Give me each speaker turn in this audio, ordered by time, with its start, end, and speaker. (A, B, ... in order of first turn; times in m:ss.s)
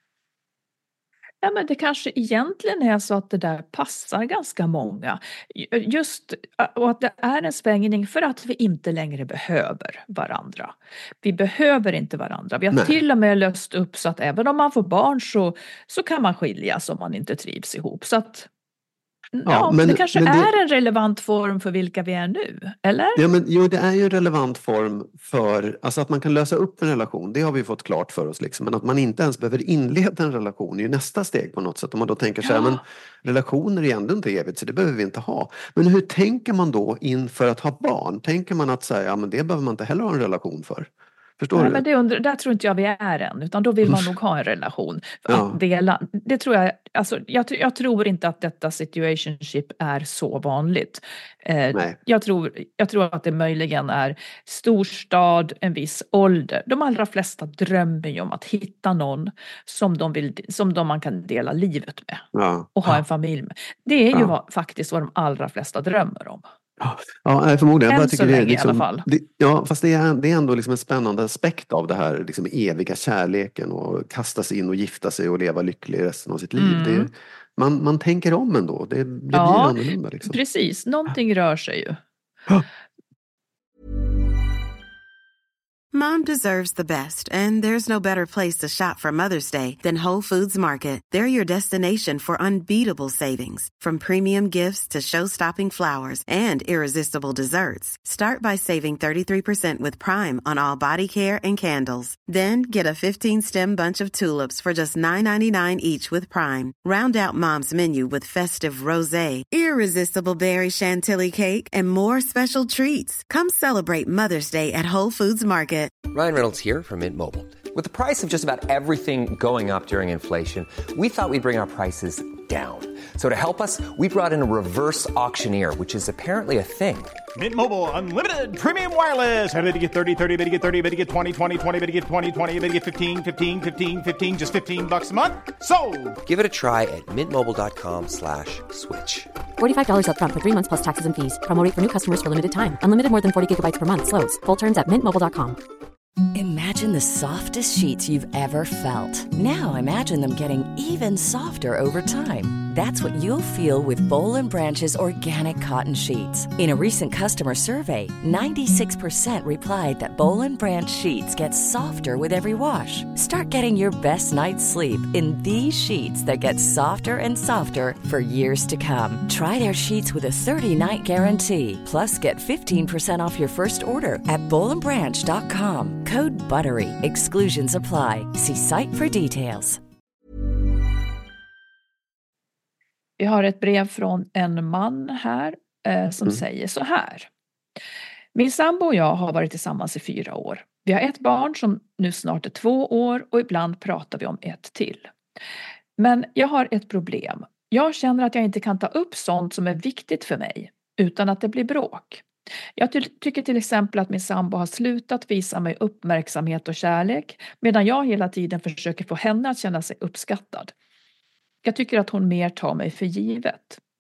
0:01.4-0:18.5 A
0:12.7-0:13.0 B
0:19.4-0:23.2 A
0:19.5-0:20.5 B
0:23.2-0:41.8 B
0:32.4-0:32.8 A
0:41.6-1:06.5 A
0:45.3-0:45.6 B
1:02.3-1:03.0 B
1:06.8-1:20.4 B
1:07.9-1:09.1 A
1:16.6-1:17.1 A
1:19.3-1:22.0 A
1:25.9-1:56.0 C
1:56.1-2:07.2 D
2:07.4-2:16.2 E
2:16.2-2:19.3 D
2:19.6-2:25.6 F
2:26.3-2:59.8 G
3:03.2-3:07.3 A
3:08.4-3:15.1 A
3:16.0-3:22.2 A
3:22.8-3:30.7 A
3:31.6-3:33.8 A